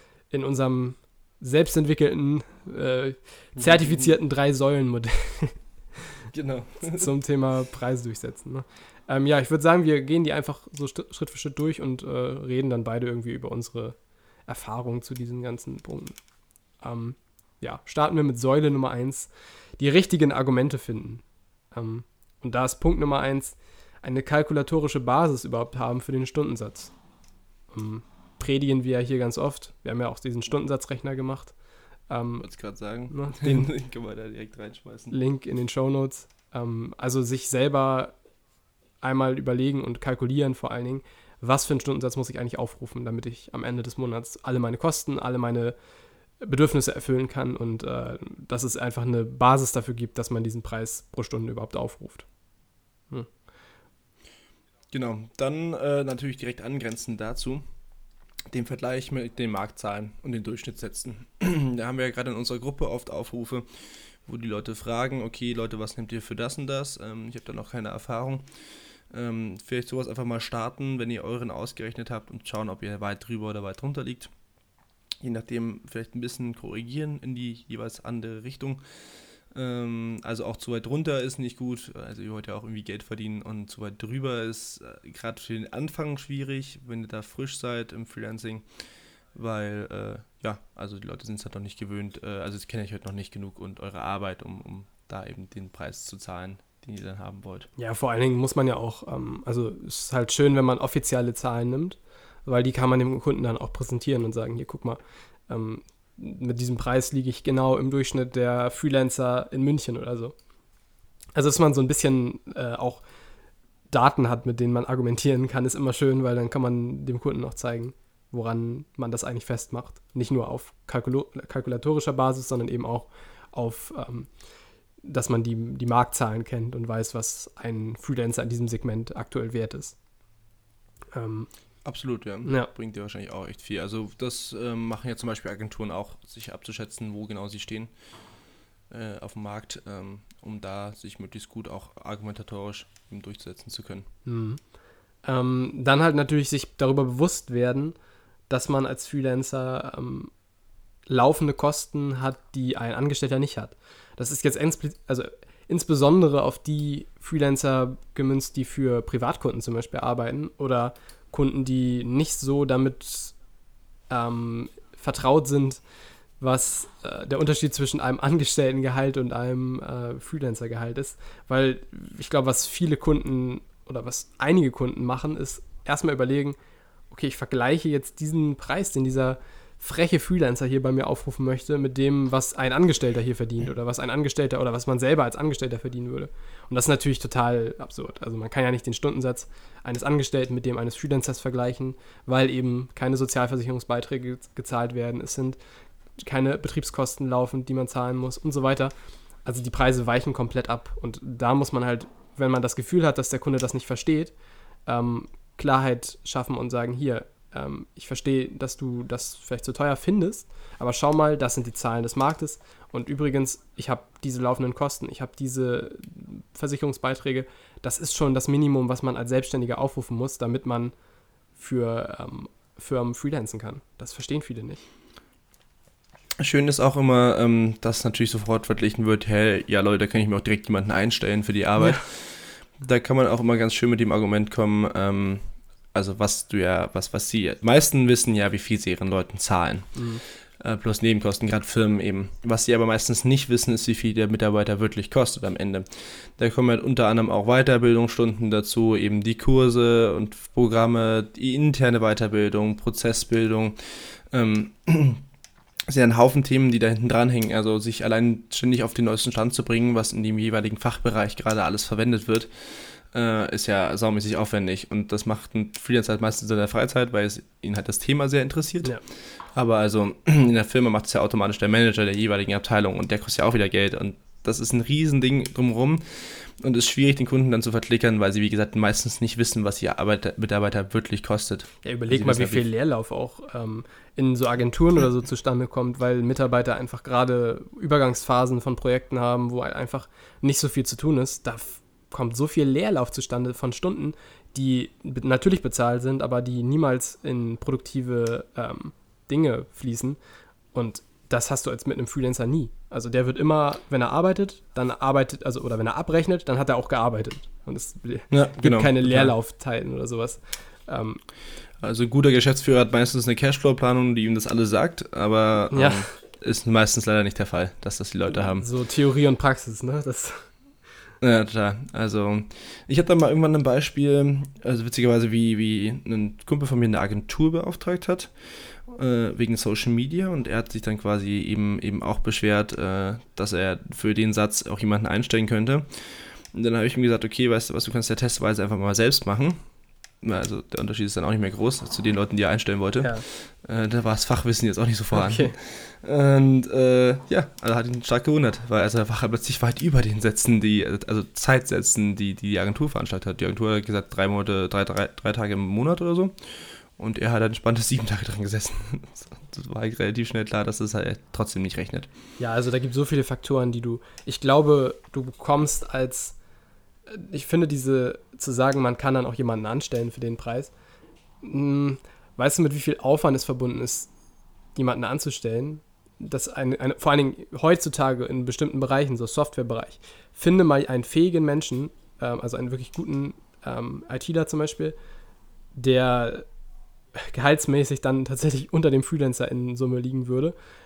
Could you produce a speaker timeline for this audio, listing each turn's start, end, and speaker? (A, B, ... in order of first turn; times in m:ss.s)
0:00.3-0:05.6 A
0:03.6-0:04.1 B
0:06.3-0:07.1 B
0:06.9-0:14.0 A
0:14.5-0:16.2 A
0:16.8-0:26.9 A
0:27.7-0:31.5 A
0:32.1-0:32.4 A
0:32.4-0:35.1 B
0:33.1-0:33.7 A
0:35.1-0:38.1 A
0:39.0-0:45.7 A
0:46.4-0:52.2 A
0:54.9-0:57.6 B
0:58.5-1:03.6 B
1:04.2-1:08.4 B
1:09.1-1:14.3 B
1:15.2-1:18.8 B
1:19.5-1:28.6 B
1:29.3-1:37.7 B
1:37.8-1:50.3 A
1:51.4-1:53.0 A
1:53.9-2:04.3 A
2:05.0-2:10.0 A
2:11.1-2:11.5 A
2:11.8-2:17.9 B
2:12.4-2:12.7 A
2:18.9-2:24.1 B
2:24.2-2:24.6 A
2:25.2-2:27.9 A
2:28.5-2:30.3 A
2:31.1-2:43.3 A
2:44.1-2:45.8 A
2:46.4-2:56.6 A
2:57.1-3:15.6 A
3:16.2-3:18.9 A
3:19.4-3:24.3 A
3:24.8-3:40.9 A
3:41.6-3:44.8 A
3:46.4-4:00.0 B
3:59.9-4:00.2 A
4:00.6-4:15.2 B
4:15.9-4:29.0 B
4:29.5-4:42.7 B
4:41.8-5:00.2 A
5:00.7-5:11.2 A
5:08.3-5:09.3 B
5:11.8-5:18.7 B
5:15.7-5:16.0 A
5:18.6-5:20.4 A
5:21.2-5:28.3 B
5:28.8-5:39.6 B
5:40.2-6:02.1 B
5:45.1-5:45.5 A
6:02.4-6:06.4 A
6:07.1-6:10.7 A
6:11.4-6:14.1 A
6:14.8-6:25.0 A
6:25.7-6:26.4 A
6:27.2-6:30.5 A